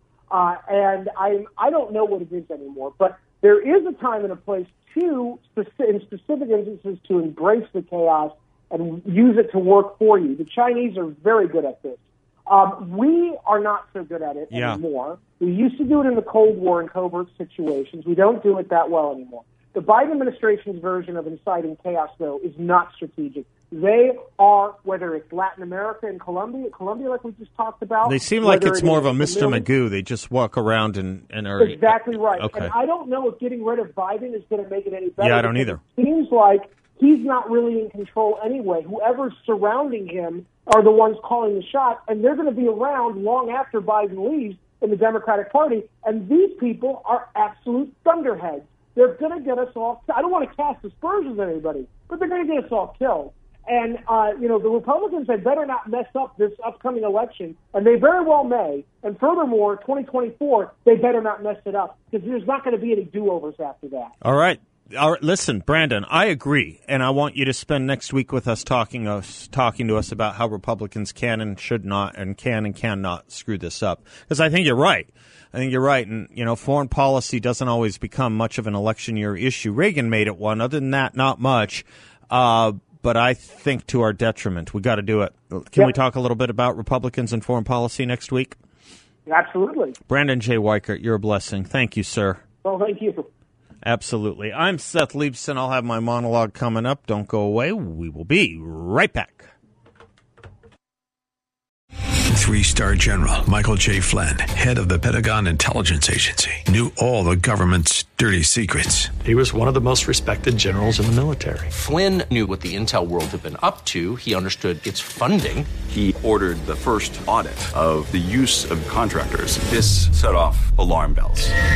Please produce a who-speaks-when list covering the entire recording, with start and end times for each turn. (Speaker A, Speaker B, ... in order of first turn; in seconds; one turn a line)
Speaker A: 0.3-29.6
Speaker B: 14.5-14.8
Speaker B: 28.0-32.7
Speaker A: 31.6-64.1
Speaker B: 35.2-35.8
Speaker B: 64.2-88.5
Speaker A: 89.2-90.0
Speaker B: 90.1-92.4
Speaker A: 92.6-93.3
Speaker B: 93.8-99.5
Speaker C: 102.3-109.2
Speaker D: 109.2-111.7
Speaker E: 111.7-115.7
Speaker F: 115.9-121.5